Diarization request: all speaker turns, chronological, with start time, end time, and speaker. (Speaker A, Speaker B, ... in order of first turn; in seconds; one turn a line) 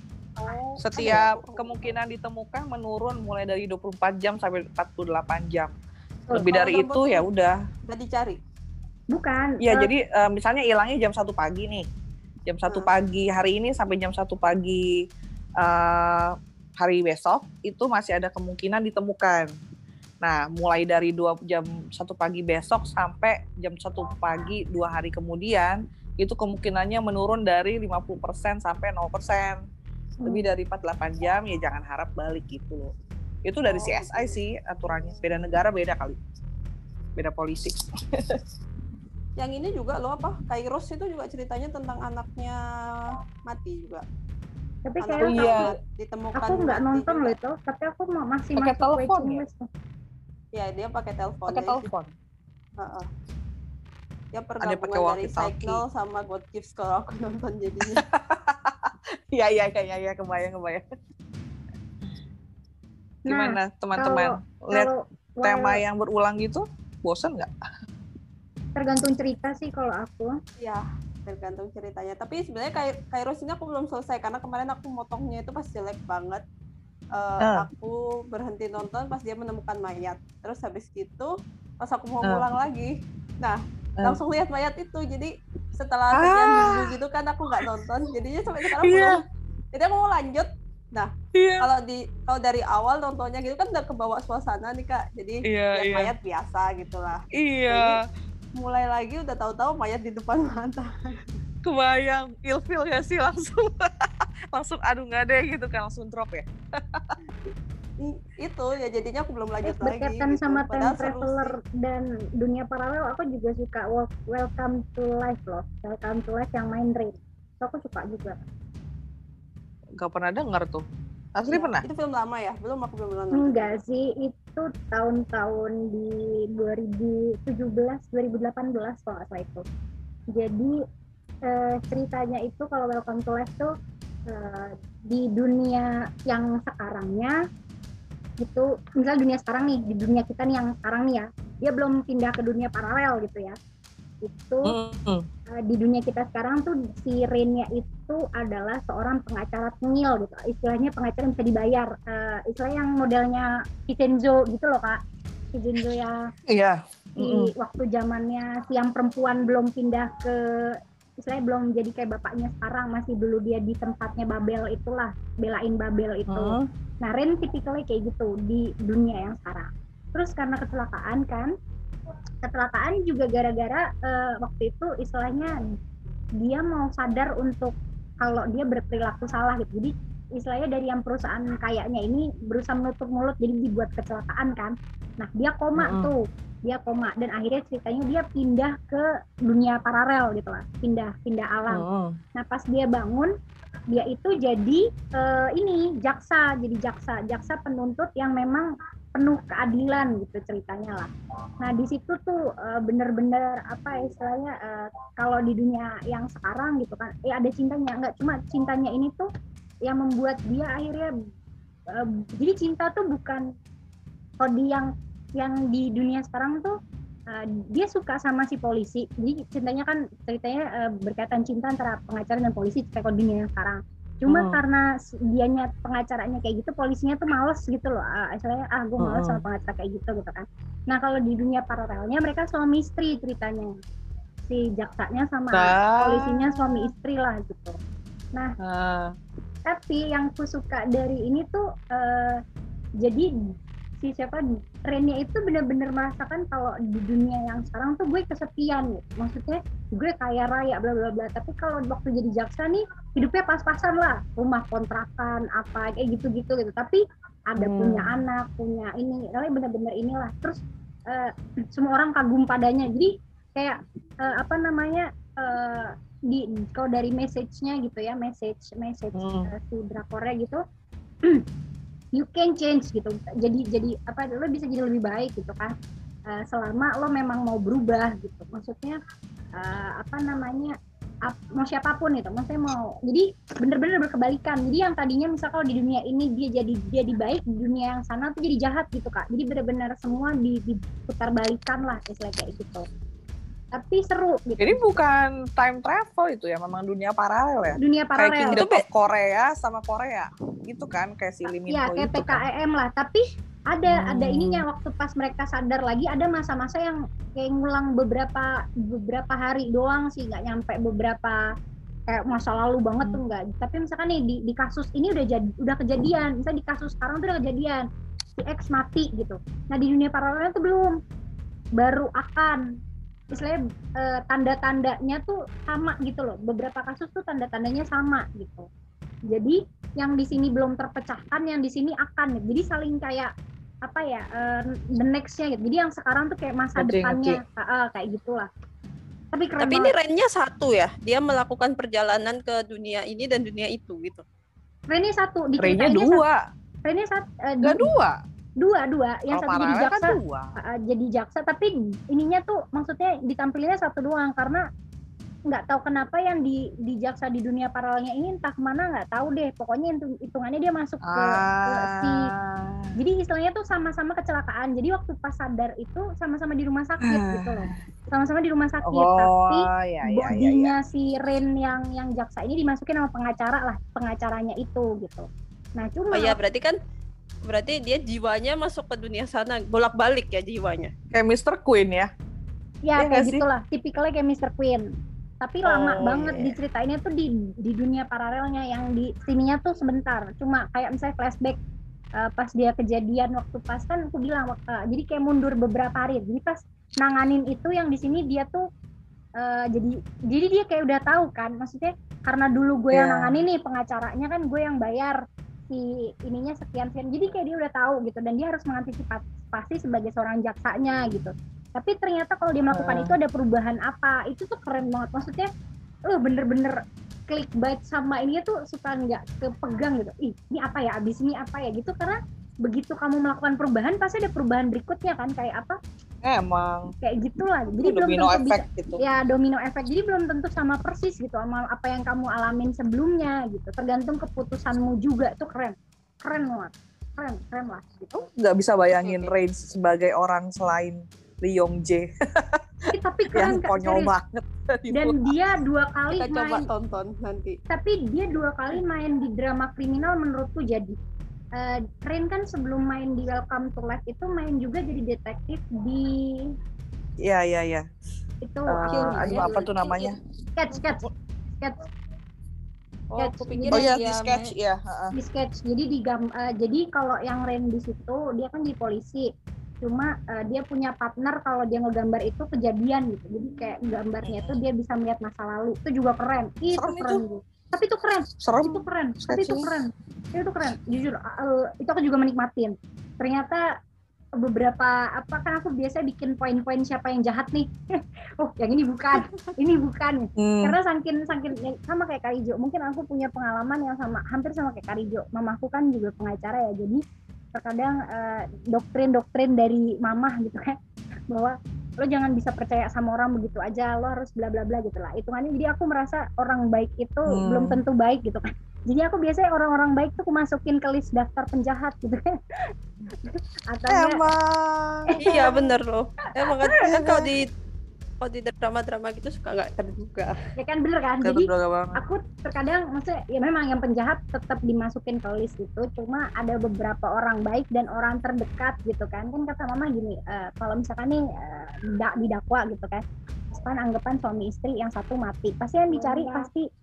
Speaker A: 0.4-1.9
Speaker B: 0.8-5.7
Speaker B: 6.3-7.6
Speaker A: 6.4-7.2
Speaker A: 7.9-8.4
Speaker C: 9.1-9.9
Speaker B: 9.6-11.8
Speaker B: 12.5-14.9
Speaker B: 15.6-19.5
Speaker B: 20.2-29.6
Speaker B: 30.2-32.9
Speaker B: 33.5-36.2
Speaker A: 33.7-34.4
Speaker B: 37.1-38.4
Speaker A: 39.4-44.0
Speaker C: 44.9-45.7
Speaker A: 45.0-47.4
Speaker B: 45.2-45.7
Speaker C: 46.3-49.7
Speaker B: 48.5-49.4
Speaker A: 50.5-51.9
Speaker B: 51.5-52.1
Speaker A: 52.8-53.1
Speaker A: 54.3-58.0
Speaker B: 54.6-55.8
Speaker B: 57.8-60.8
Speaker B: 63.3-64.9
Speaker C: 63.3-65.8
Speaker B: 65.4-67.5
Speaker C: 68.8-70.3
Speaker A: 70.6-76.4
Speaker A: 77.1-98.0
Speaker B: 77.4-77.7
Speaker B: 86.1-87.0
Speaker B: 88.6-89.2
Speaker B: 91.3-91.7
Speaker B: 95.5-96.1
Speaker B: 97.3-98.0
Speaker A: 98.6-101.2
Speaker B: 101.6-107.2
Speaker A: 107.5-111.5
Speaker C: 109.6-118.4
Speaker B: 120.0-121.8
Speaker A: 121.5-123.7
Speaker C: 123.3-129.6
Speaker C: 130.3-130.8
Speaker C: 131.4-133.7
Speaker C: 134.3-137.4
Speaker C: 138.4-143.6
Speaker C: 144.2-144.8
Speaker B: 144.6-145.3
Speaker C: 145.6-155.0
Speaker C: 155.5-156.3
Speaker B: 156.5-157.5
Speaker C: 157.2-171.5
Speaker B: 166.3-166.7
Speaker C: 172.4-175.6
Speaker C: 176.4-193.3
Speaker B: 185.8-186.1
Speaker B: 191.7-192.2
Speaker C: 193.9-201.1
Speaker C: 201.6-209.3
Speaker C: 209.8-211.1
Speaker C: 211.9-213.4
Speaker C: 214.4-216.7
Speaker C: 217.3-233.8
Speaker B: 224.3-224.6
Speaker B: 229.0-229.4
Speaker C: 234.5-237.8
Speaker B: 235.5-236.9
Speaker B: 238.6-239.1
Speaker C: 239.7-242.4
Speaker C: 243.0-243.4
Speaker C: 244.0-270.6
Speaker B: 257.6-258.2
Speaker B: 269.1-269.5
Speaker C: 272.1-275.7
Speaker C: 276.3-279.0
Speaker C: 279.6-280.7
Speaker C: 281.3-292.9
Speaker C: 293.7-294.8
Speaker B: 294.6-302.4
Speaker C: 297.8-298.6
Speaker A: 298.5-298.8
Speaker C: 301.5-311.4
Speaker B: 303.9-304.6
Speaker C: 312.1-321.0
Speaker C: 321.8-322.7
Speaker C: 323.3-328.7
Speaker C: 329.3-333.3
Speaker C: 333.8-338.5
Speaker B: 336.8-337.4
Speaker C: 339.3-339.9
Speaker A: 339.6-344.2
Speaker C: 344.9-346.2
Speaker B: 345.6-346.4
Speaker C: 346.8-347.9
Speaker B: 347.6-348.2
Speaker C: 348.6-354.6
Speaker B: 349.3-350.5
Speaker C: 355.5-362.3
Speaker B: 361.0-362.9
Speaker C: 363.0-376.4
Speaker B: 367.1-367.8
Speaker B: 368.8-370.7
Speaker A: 376.1-376.8
Speaker A: 377.4-380.9
Speaker B: 381.1-382.1
Speaker C: 382.9-384.9
Speaker B: 383.0-383.4
Speaker C: 385.4-391.6
Speaker B: 385.7-386.2
Speaker A: 386.1-386.5
Speaker C: 392.2-398.6
Speaker C: 399.4-405.2
Speaker B: 402.9-403.4
Speaker C: 405.7-415.5
Speaker B: 412.7-413.1
Speaker C: 416.1-425.8
Speaker B: 426.2-426.9
Speaker C: 427.0-438.3
Speaker B: 427.8-429.0
Speaker B: 438.2-445.4
Speaker A: 439.0-439.3
Speaker C: 442.9-444.1
Speaker C: 444.9-446.7
Speaker A: 446.1-447.6
Speaker C: 447.7-451.0
Speaker C: 451.6-456.5
Speaker B: 457.2-457.9
Speaker C: 458.4-461.9
Speaker B: 458.7-460.2
Speaker A: 458.9-459.8
Speaker A: 463.1-464.5
Speaker C: 463.2-463.9
Speaker B: 463.7-465.1
Speaker C: 465.1-469.3
Speaker C: 469.8-483.6
Speaker B: 474.2-474.6
Speaker B: 476.7-477.2
Speaker B: 478.4-479.7
Speaker C: 484.4-497.0
Speaker B: 490.4-490.8
Speaker C: 497.5-500.8
Speaker C: 501.3-514.2
Speaker B: 507.3-507.8
Speaker B: 513.9-515.1
Speaker C: 515.1-515.7
Speaker A: 515.2-517.5
Speaker C: 516.3-517.3
Speaker A: 518.2-520.3
Speaker C: 520.5-536.6
Speaker B: 521.2-522.0